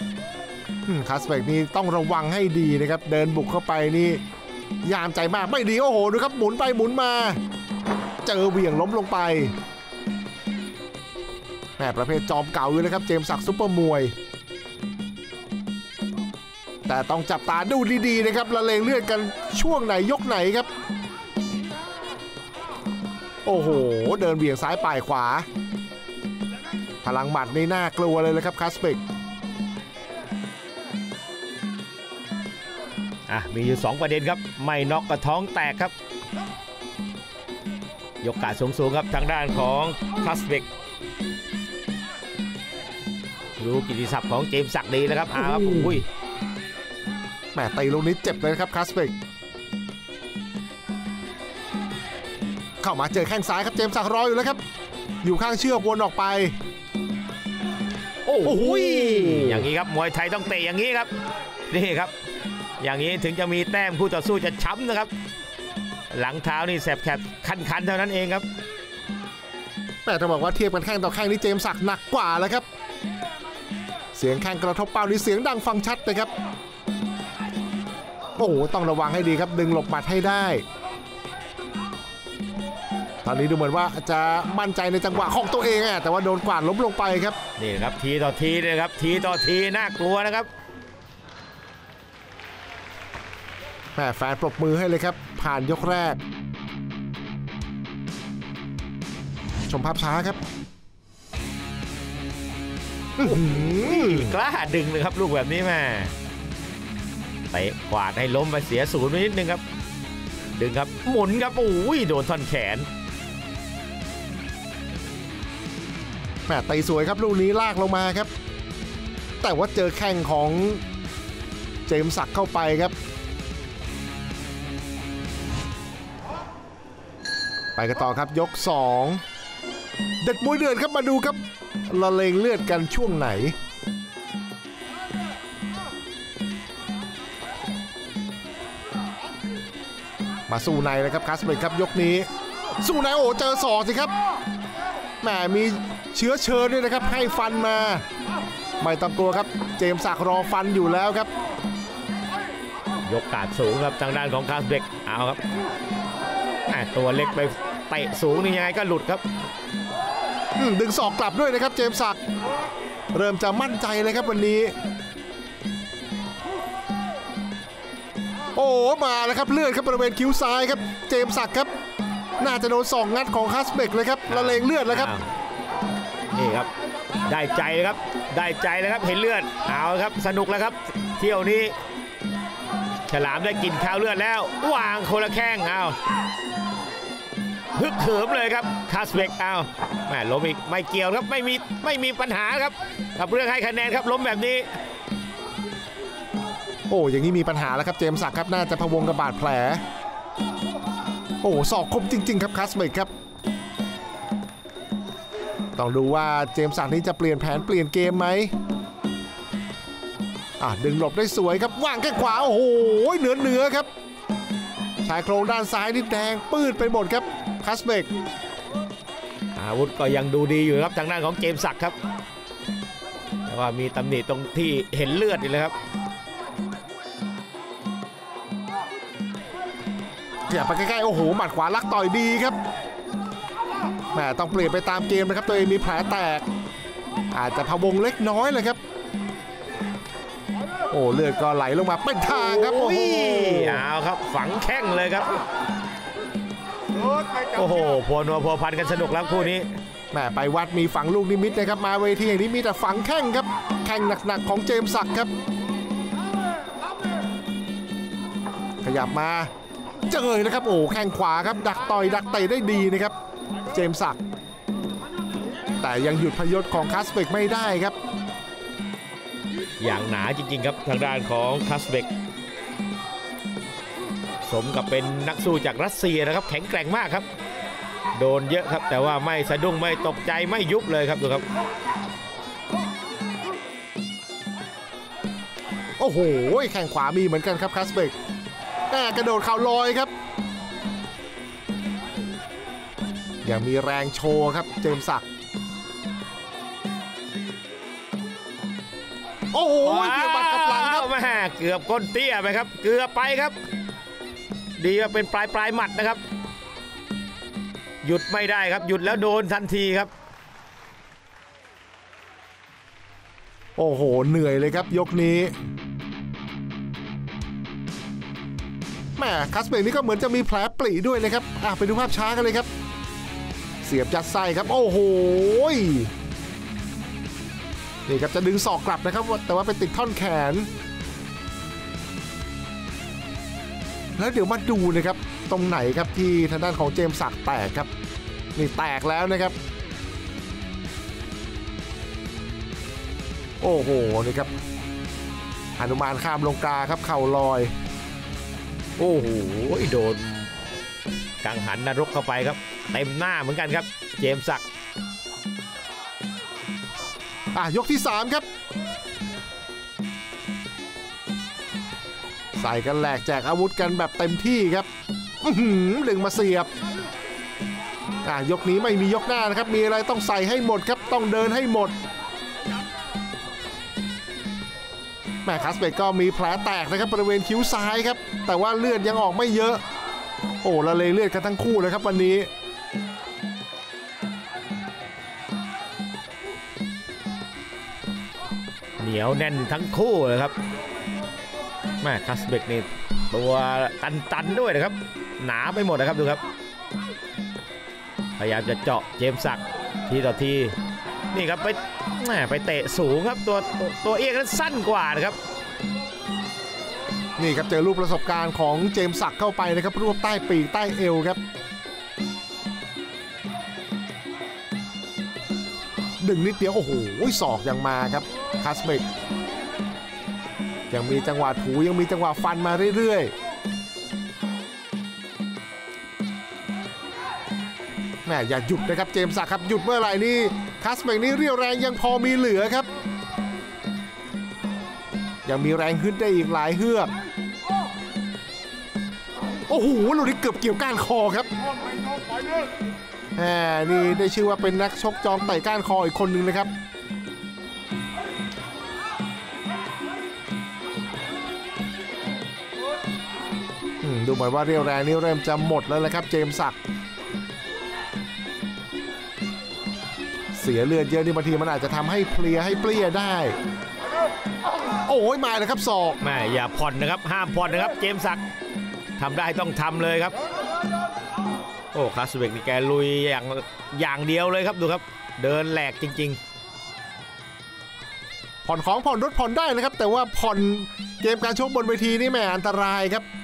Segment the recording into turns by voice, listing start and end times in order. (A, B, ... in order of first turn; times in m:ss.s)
0:00.9-0:04.2 A
0:04.8-0:07.4 A
0:08.2-0:09.5 A
0:11.8-0:14.1 A
0:16.9-0:20.7 A
0:23.4-0:25.5 A
0:27.0-0:29.0 A
0:33.3-0:35.9 B
0:38.2-0:40.7 B
0:43.6-0:46.1 B
0:45.3-0:46.0 A
0:47.5-0:49.1 A
0:52.8-0:54.6 A
0:55.2-0:56.6 A
0:58.3-1:01.1 B
0:58.4-0:59.7 A
1:01.7-1:02.1 B
1:02.8-1:05.1 B
1:06.1-1:08.5 B
1:10.0-1:12.7 A
1:14.1-1:16.3 A
1:18.4-1:20.6 A
1:23.2-1:27.4 A
1:27.6-1:30.5 B
1:34.0-1:36.2 A
1:39.7-1:40.4 A
1:43.2-1:44.3 A
1:43.2-1:46.1 B
1:47.5-1:49.6 B
1:50.5-1:52.9 B
1:56.5-1:58.3 A
1:59.4-2:00.8 A
2:01.9-2:02.9 A
2:07.8-2:09.2 A
2:10.2-2:13.6 A
2:20.5-2:22.3 A
2:22.8-2:24.1 A
2:25.2-2:28.0 A
2:28.8-2:31.3 A
2:33.0-2:35.4 B
2:36.7-2:39.2 B
2:40.6-2:42.2 A
2:43.1-2:44.7 A
2:48.6-2:51.7 A
2:52.4-2:55.1 A
2:54.3-2:55.2 B
2:56.3-2:56.7 B
2:57.2-3:01.7 B
3:03.1-3:06.0 B
3:07.8-3:14.7 B
3:16.9-3:19.8 A
3:21.4-3:23.1 A
3:25.8-3:28.5 A
3:30.6-3:33.9 A
3:35.0-3:38.1 A
3:39.6-3:42.0 B
3:43.5-3:45.7 B
3:50.5-3:52.6 A
3:54.1-3:56.5 A
3:57.3-3:58.8 A
4:00.9-4:03.9 A
4:02.3-4:05.3 B
4:07.5-4:09.7 B
4:10.1-4:15.3 A
4:18.8-4:19.5 A
4:20.1-4:23.2 A
4:23.7-4:24.2 A
4:25.8-4:28.0 A
4:29.8-4:32.1 B
4:34.5-4:37.3 B
4:38.2-4:41.4 B
4:46.0-4:48.1 A
4:48.9-4:50.1 A
4:53.4-4:55.2 A
4:59.5-5:01.1 A
4:59.8-5:03.6 B
5:04.8-5:06.2 B
5:08.0-5:10.1 B
5:13.8-5:15.5 A
5:19.2-5:22.7 A
5:23.8-5:26.1 A
5:28.1-5:30.7 A
5:34.2-5:37.9 A
5:38.6-5:39.6 A
5:43.6-5:44.5 A
5:45.8-5:47.7 A
5:49.0-5:50.5 B
5:51.4-5:54.6 B
5:57.5-5:58.5 A
6:02.6-6:04.9 A
6:05.4-6:06.7 A
6:08.2-6:12.0 A
6:15.4-6:19.8 A
6:20.6-6:22.5 A
6:29.0-6:30.5 B
6:32.0-6:36.4 B
6:38.4-6:40.8 B
6:41.3-6:45.4 B
6:47.4-6:51.4 A
6:56.2-6:59.1 A
7:00.9-7:03.3 A
7:08.2-7:12.9 A
7:15.4-7:17.1 A
7:19.7-7:21.5 A
7:23.4-7:26.7 A
7:34.0-7:36.8 A
7:40.5-7:43.6 A
7:45.0-7:46.2 A
7:46.2-7:48.4 B
7:49.2-7:50.3 B
7:51.9-7:56.4 B
7:58.6-8:03.3 A